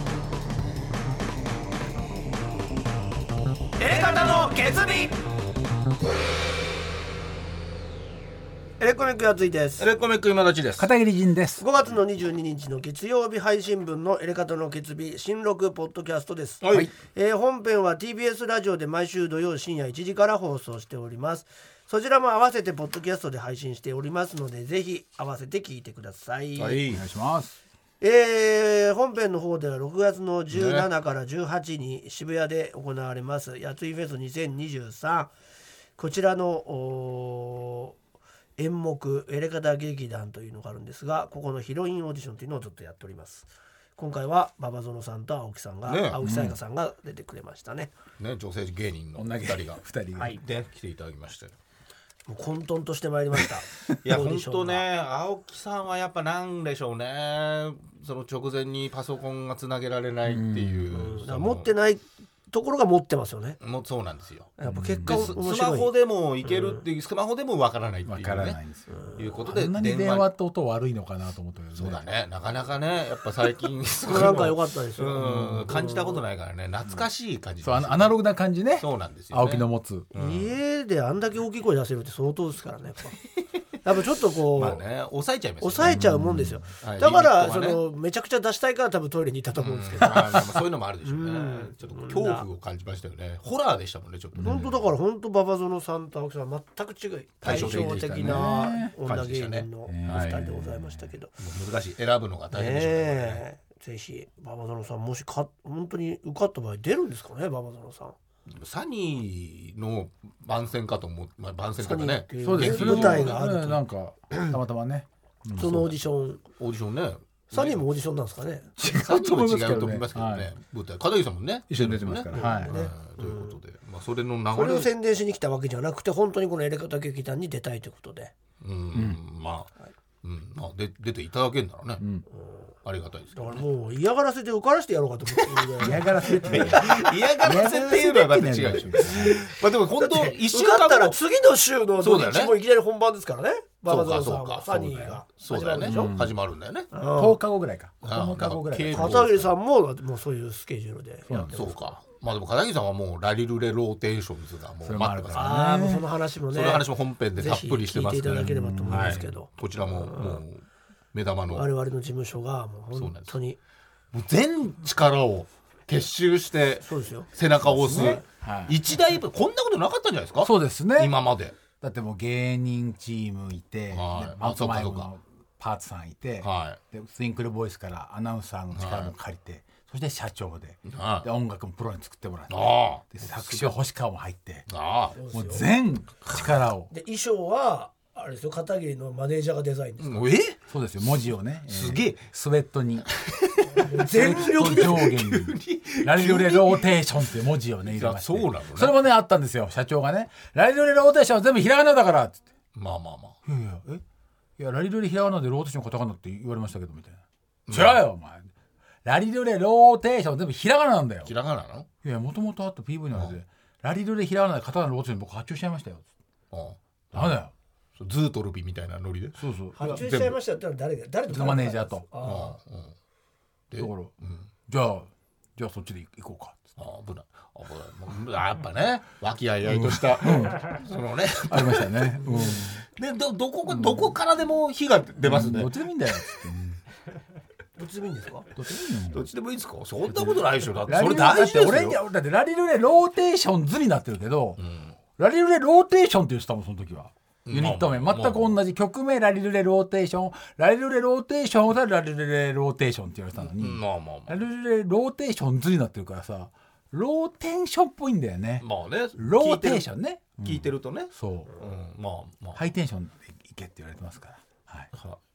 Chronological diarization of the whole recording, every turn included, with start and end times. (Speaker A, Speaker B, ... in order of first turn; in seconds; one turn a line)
Speaker A: 3.8-5.2
Speaker A: 8.8-9.9
Speaker B: 9.8-10.9
Speaker C: 10.8-11.6
Speaker A: 11.6-26.8
Speaker B: 16.6-16.9
Speaker B: 26.6-27.0
Speaker C: 26.9-27.6
Speaker A: 28.0-35.3
Speaker B: 30.5-30.9
Speaker A: 36.0-38.0
Speaker A: 38.6-47.9
Speaker B: 45.9-46.2
Speaker C: 46.2-46.6
Speaker B: 48.2-51.5
Speaker C: 49.2-50.4
Speaker A: 52.3-54.8
Speaker B: 54.0-61.7
Speaker C: 60.3-60.9
Speaker A: 60.9-63.6
Speaker B: 63.6-68.6
Speaker A: 64.6-65.9
Speaker C: 64.7-65.4
Speaker A: 66.5-66.8
Speaker C: 68.1-72.0
Speaker B: 69.1-70.3
Speaker B: 71.8-78.2
Speaker A: 74.0-76.2
Speaker C: 77.6-80.1
Speaker B: 78.8-80.5
Speaker A: 80.1-83.2
Speaker A: 83.8-84.8
Speaker B: 84.5-86.0
Speaker A: 85.6-92.5
Speaker C: 85.8-86.6
Speaker B: 86.8-87.8
Speaker B: 89.6-94.8
Speaker C: 94.4-94.7
Speaker A: 94.4-101.3
Speaker B: 97.4-100.5
Speaker C: 97.5-98.9
Speaker C: 99.9-101.1
Speaker B: 101.4-103.4
Speaker A: 102.5-108.2
Speaker B: 108.5-113.4
Speaker A: 111.8-113.8
Speaker C: 112.4-115.9
Speaker A: 115.5-116.4
Speaker B: 116.6-117.8
Speaker A: 117.5-118.7
Speaker C: 118.8-120.5
Speaker B: 118.8-124.9
Speaker C: 121.7-122.9
Speaker A: 122.3-123.6
Speaker A: 124.5-128.3
Speaker B: 128.6-129.7
Speaker C: 128.9-129.2
Speaker B: 130.2-132.0
Speaker C: 132.0-132.2
Speaker A: 132.3-132.7
Speaker B: 132.8-133.7
Speaker A: 133.3-137.1
Speaker C: 135.8-139.4
Speaker B: 136.4-141.2
Speaker A: 139.2-146.2
Speaker B: 142.0-142.6
Speaker B: 143.9-146.9
Speaker C: 145.8-146.3
Speaker A: 146.9-147.4
Speaker C: 147.2-149.2
Speaker B: 148.0-149.5
Speaker A: 148.9-151.8
Speaker C: 151.3-151.7
Speaker B: 151.5-155.6
Speaker C: 154.8-156.1
Speaker A: 155.3-160.4
Speaker B: 156.5-161.7
Speaker C: 158.3-159.3
Speaker A: 161.5-163.6
Speaker B: 162.9-163.3
Speaker B: 164.1-171.6
Speaker A: 166.8-167.3
Speaker C: 167.7-168.8
Speaker A: 167.9-168.2
Speaker C: 170.4-171.2
Speaker C: 171.8-184.7
Speaker B: 173.9-175.1
Speaker B: 176.4-176.8
Speaker B: 178.7-179.1
Speaker B: 180.8-181.3
Speaker B: 182.5-183.8
Speaker B: 184.7-185.2
Speaker A: 185.2-185.7
Speaker C: 185.3-186.9
Speaker A: 186.9-190.3
Speaker B: 190.0-190.6
Speaker C: 190.7-193.1
Speaker B: 191.7-192.2
Speaker B: 193.1-197.1
Speaker A: 193.7-195.0
Speaker C: 193.9-202.4
Speaker B: 197.9-199.0
Speaker B: 202.8-203.4
Speaker C: 203.5-204.0
Speaker C: 204.6-208.5
Speaker B: 207.7-208.0
Speaker C: 209.1-211.3
Speaker B: 211.2-211.9
Speaker C: 212.0-216.1
Speaker B: 216.5-217.4
Speaker C: 217.1-217.5
Speaker B: 218.0-220.4
Speaker C: 219.4-220.0
Speaker A: 219.8-222.6
Speaker C: 221.3-222.1
Speaker B: 222.2-222.9
Speaker B: 223.7-224.5
Speaker C: 223.8-224.1
Speaker C: 224.7-226.7
Speaker B: 226.8-235.7
Speaker C: 229.7-230.7
Speaker C: 231.5-232.8
Speaker A: 232.2-232.6
Speaker C: 233.7-234.1
Speaker C: 235.2-236.8
Speaker A: 237.8-238.5
Speaker C: 238.6-239.2
Speaker B: 239.1-242.0
Speaker C: 240.9-244.6
Speaker B: 244.6-244.9
Speaker C: 245.2-261.5
Speaker B: 247.5-248.6
Speaker B: 253.4-254.4
Speaker B: 258.6-259.9
Speaker B: 260.4-262.6
Speaker C: 262.6-264.9